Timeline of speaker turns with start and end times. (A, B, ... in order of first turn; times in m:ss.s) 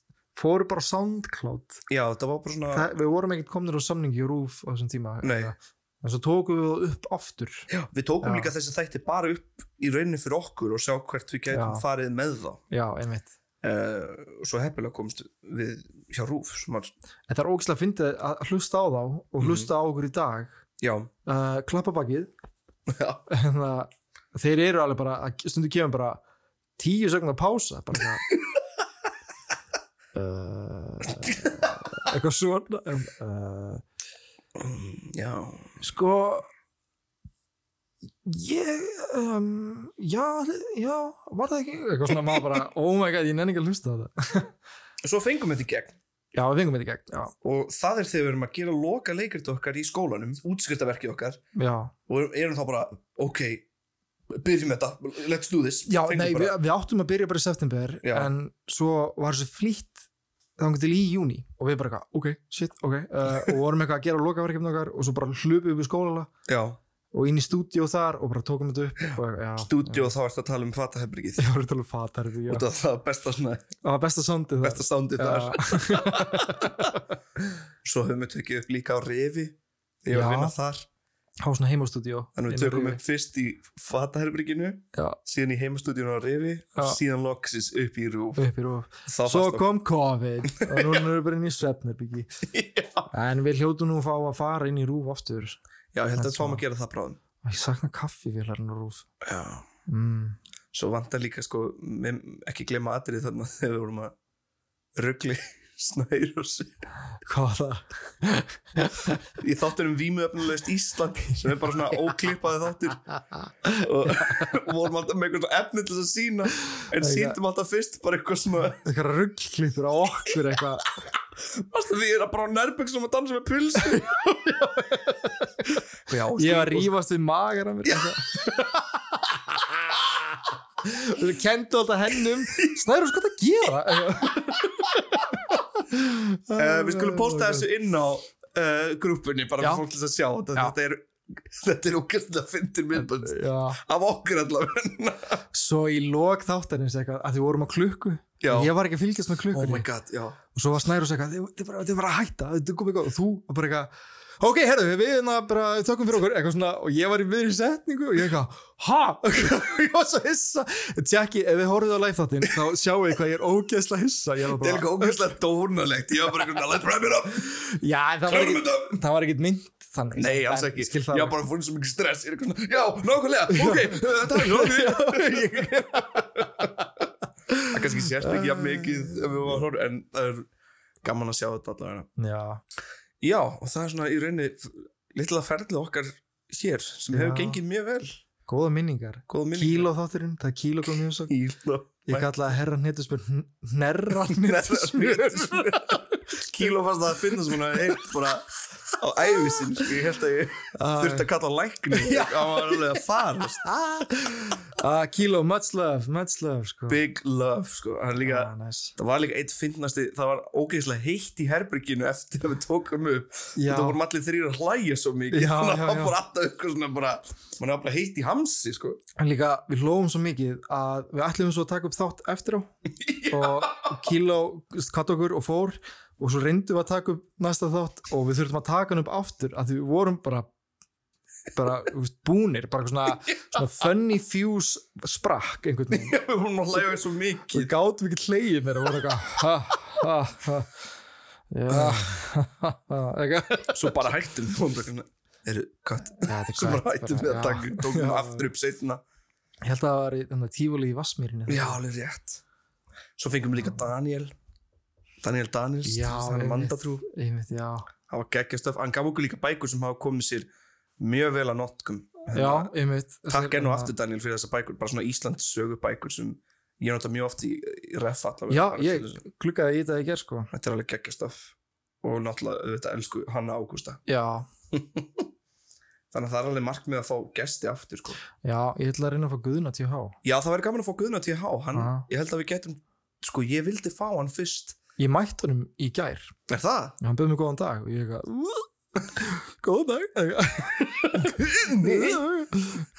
0:00.4-0:01.8 A
0:01.9-0:02.9 B
0:02.7-0:07.7 A
0:05.2-0:05.5 B
0:07.7-0:12.6 B
0:08.2-0:08.5 A
0:11.5-0:11.8 A
0:12.7-0:13.3 A
0:13.6-0:16.9 B
0:17.3-0:20.6 A
0:19.4-0:19.7 B
0:20.8-0:21.1 B
0:21.3-0:22.3 A
0:22.9-0:23.2 B
0:23.3-0:26.2 A
0:26.8-0:28.3 A
0:30.1-0:33.8 A
0:31.2-0:31.7 B
0:34.6-0:35.7 B
0:35.8-0:36.5 A
0:38.2-0:44.5 A
0:42.1-0:42.6 B
0:45.0-0:46.0 B
0:46.3-0:47.3 A
0:47.4-0:51.4 B
0:51.6-0:51.9 A
0:52.1-0:53.7 B
0:54.3-0:56.6 B
0:55.9-1:00.0 A
0:58.0-0:58.3 B
1:00.6-1:06.3 A
1:06.5-1:06.8 B
1:07.1-1:10.1 A
1:09.1-1:11.5 B
1:11.4-1:12.7 A
1:12.5-1:13.7 B
1:13.8-1:17.0 A
1:14.6-1:17.0 B
1:17.8-1:20.9 B
1:20.1-1:20.6 A
1:21.4-1:23.0 A
1:22.4-1:28.4 B
1:24.9-1:25.2 A
1:28.4-1:32.4 A
1:29.1-1:29.6 B
1:30.6-1:31.0 B
1:32.5-1:33.1 B
1:33.1-1:35.6 A
1:35.9-1:37.2 B
1:36.2-1:36.6 A
1:37.4-1:39.1 A
1:39.2-1:39.6 B
1:39.9-1:40.4 A
1:40.7-1:44.2 B
1:45.0-1:46.8 B
1:47.2-1:49.2 A
1:49.3-1:53.0 B
1:53.6-1:58.8 B
1:54.2-1:54.5 A
1:56.8-1:57.4 A
1:58.8-2:00.9 A
2:01.4-2:04.1 B
2:03.8-2:05.8 A
2:06.1-2:06.9 B
2:06.4-2:17.7 A
2:07.9-2:08.1 B
2:16.6-2:25.4 B
2:22.9-2:23.8 A
2:25.5-2:29.9 A
2:28.4-2:28.7 B
2:29.5-2:30.4 B
2:30.5-2:45.2 A
2:44.5-2:47.6 B
2:47.5-2:51.4 A
2:48.3-2:49.0 B
2:50.2-2:56.7 B
2:53.5-2:56.8 A
2:57.5-2:59.4 A
2:57.7-3:00.5 B
3:01.0-3:02.1 B
3:02.2-3:02.6 A
3:03.2-3:08.2 B
3:07.1-3:07.6 A
3:08.5-3:11.3 A
3:09.3-3:09.9 B
3:11.3-3:12.3 B
3:12.1-3:16.7 A
3:14.2-3:23.7 B
3:17.4-3:17.9 A
3:20.7-3:21.3 A
3:21.9-3:23.0 A
3:23.6-3:27.0 A
3:26.9-3:39.0 B
3:28.2-3:29.0 A
3:33.6-3:34.0 A
3:35.3-3:36.2 A
3:39.2-3:42.7 A
3:43.0-3:44.0 B
3:43.3-3:50.5 A
3:51.5-3:56.2 A
3:55.9-3:57.7 B
3:57.5-4:00.8 A
4:01.5-4:04.1 A
4:01.7-4:02.1 B
4:03.7-4:09.0 B
4:06.2-4:08.5 A
4:09.6-4:11.8 A
4:11.5-4:12.4 B
4:13.2-4:14.3 B
4:15.2-4:17.0 B
4:15.8-4:17.9 A
4:18.1-4:22.7 B
4:22.3-4:23.9 A
4:23.3-4:29.2 B
4:28.5-4:30.5 A
4:30.5-4:34.0 B
4:34.1-4:34.5 A
4:34.7-4:35.3 B
4:36.1-4:38.2 B
4:38.4-4:40.2 A
4:40.2-4:44.8 B
4:41.7-4:42.1 A
4:45.0-4:46.3 A
4:46.5-4:47.0 B
4:47.0-4:52.9 A
4:51.1-4:52.2 B